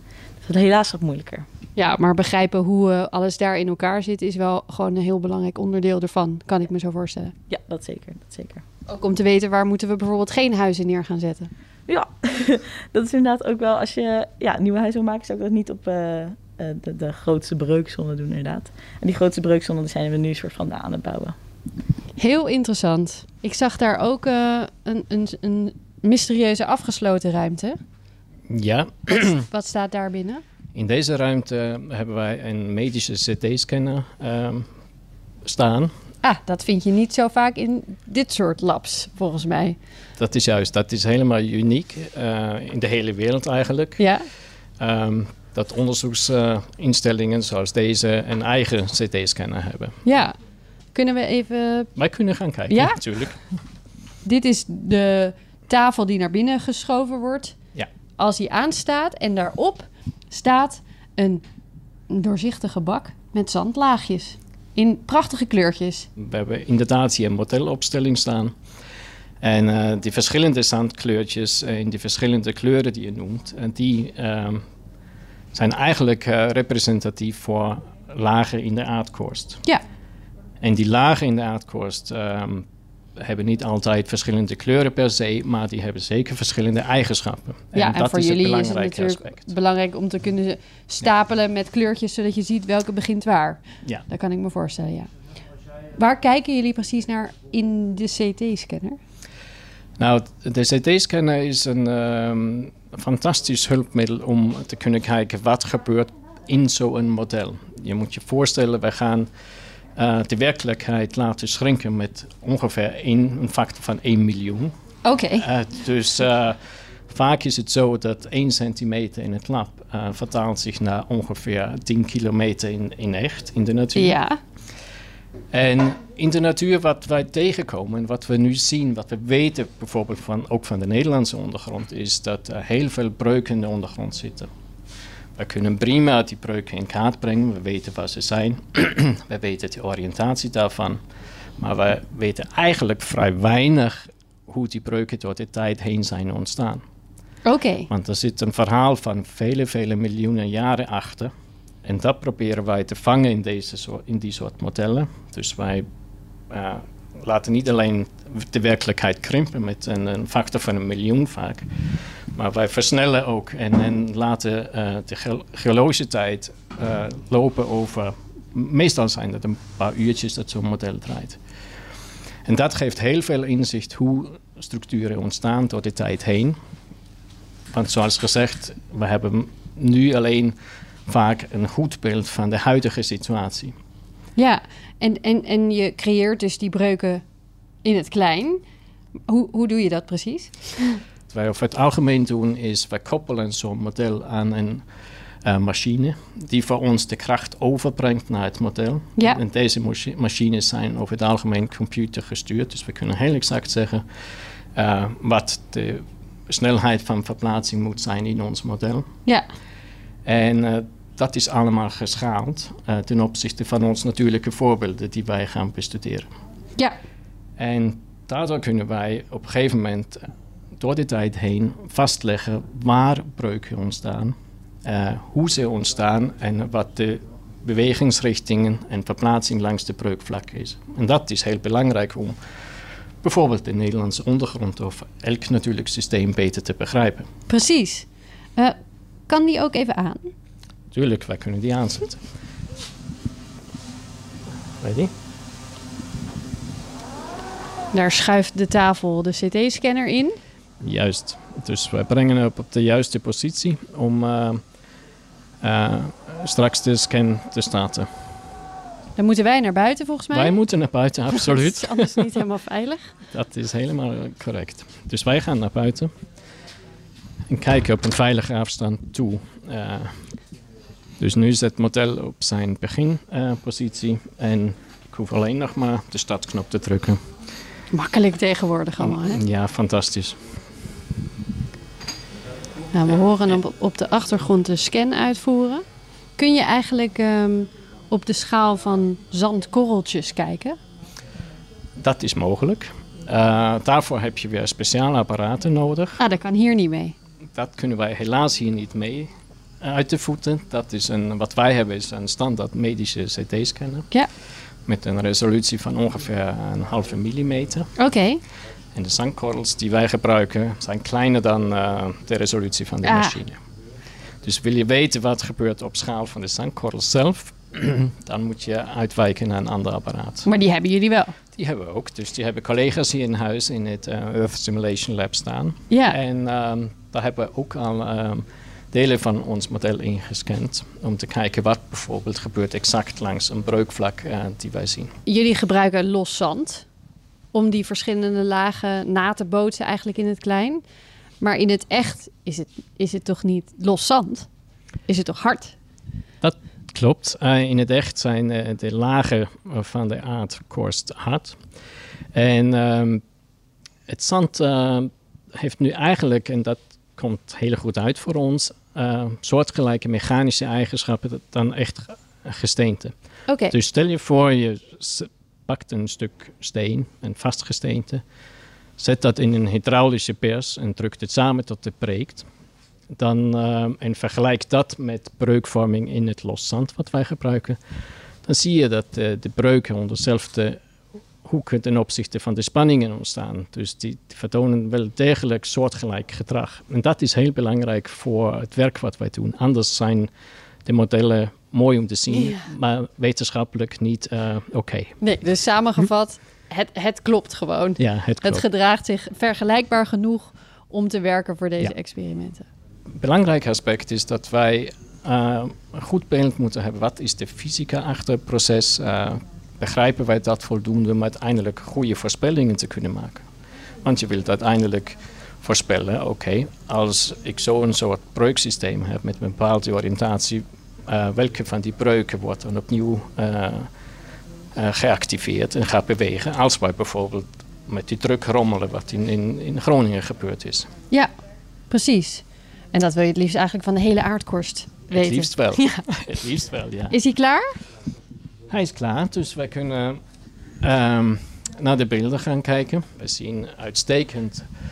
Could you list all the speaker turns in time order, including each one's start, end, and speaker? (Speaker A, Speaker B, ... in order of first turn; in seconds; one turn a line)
Speaker A: 0.4-1.5
Speaker B: 1.8-7.3
Speaker A: 7.5-8.6
Speaker B: 8.9-11.5
Speaker A: 11.9-21.4
Speaker B: 22.2-27.8
Speaker C: 28.5-29.5
Speaker B: 29.5-30.4
Speaker C: 30.8-34.7
Speaker C: 35.5-35.9
Speaker B: 36.2-39.8
Speaker C: 40.2-44.0
Speaker B: 44.0-44.3
Speaker C: 44.8-50.0
Speaker B: 50.0-50.4
Speaker B: 50.9-51.9
Speaker C: 52.0-53.4
Speaker B: 52.7-53.0
Speaker B: 54.2-57.5
Speaker B: 58.2-61.5
Speaker B: 62.1-66.1
Speaker C: 66.2-68.5
Speaker C: 69.4-74.6
Speaker C: 75.5-79.6
Speaker C: 80.6-82.7
Speaker C: 83.2-89.5
Speaker B: 87.7-95.1
Speaker B: 96.0-99.0
Speaker C: 100.0-109.3
Speaker C: 110.0-114.7
Speaker B: 115.0-115.5
Speaker C: 115.4-116.6
Speaker C: 117.1-124.2
Speaker B: 124.0-124.4
Speaker C: 125.5-134.5
Speaker C: 135.4-141.0
Speaker C: 141.6-146.8
Speaker B: 147.4-147.9
Speaker C: 147.9-151.3
Speaker C: 151.8-155.9
Speaker C: 156.5-161.7
Speaker C: 162.3-171.4
Speaker C: 172.5-176.6
Speaker C: 177.7-180.6
Speaker C: 181.1-183.8
Speaker B: 184.4-187.2
Speaker B: 187.8-188.6
Speaker B: 189.3-190.9
Speaker C: 191.3-194.8
Speaker C: 195.4-204.0
Speaker C: 204.8-209.1
Speaker C: 210.3-216.3
Speaker C: 217.6-220.2
Speaker C: 220.8-232.4
Speaker C: 233.2-237.3
Speaker B: 237.5-238.8
Speaker B: 239.3-240.3
Speaker C: 240.9-242.2
Speaker C: 244.8-245.1
Speaker B: 247.9-250.4
Speaker C: 250.8-254.6
Speaker C: 255.6-258.1
Speaker B: 259.2-260.6
Speaker C: 260.3-262.3
Speaker B: 261.3-263.1
Speaker C: 263.3-266.1
Speaker C: 267.5-270.1
Speaker C: 271.2-277.2
Speaker B: 277.9-279.4
Speaker C: 279.0-280.4
Speaker B: 282.9-285.8
Speaker B: 286.4-290.8
Speaker C: 292.0-296.2
Speaker B: 296.2-297.1
Speaker C: 297.6-299.3
Speaker C: 299.8-304.1
Speaker C: 304.9-307.9
Speaker B: 308.0-308.4
Speaker C: 308.9-313.6
Speaker B: 313.0-313.4
Speaker C: 314.4-320.5
Speaker B: 320.4-321.4
Speaker C: 321.6-335.1
Speaker B: 325.9-326.2
Speaker B: 335.3-336.9
Speaker B: 337.5-340.8
Speaker B: 341.4-344.5
Speaker B: 345.1-345.8
Speaker C: 346.4-351.6
Speaker C: 352.3-353.2
Speaker C: 354.1-363.1
Speaker B: 363.5-363.7
Speaker C: 363.7-368.2
Speaker C: 369.0-372.5
Speaker C: 373.1-377.8
Speaker C: 378.4-380.8
Speaker C: 381.4-390.3
Speaker C: 390.9-395.1
Speaker B: 395.2-402.7
Speaker C: 398.0-398.6
Speaker C: 403.2-413.4
Speaker C: 414.0-423.9
Speaker C: 424.8-430.9
Speaker B: 431.9-436.0
Speaker C: 435.1-437.1
Speaker B: 437.1-437.7
Speaker C: 438.7-440.2
Speaker C: 440.8-444.7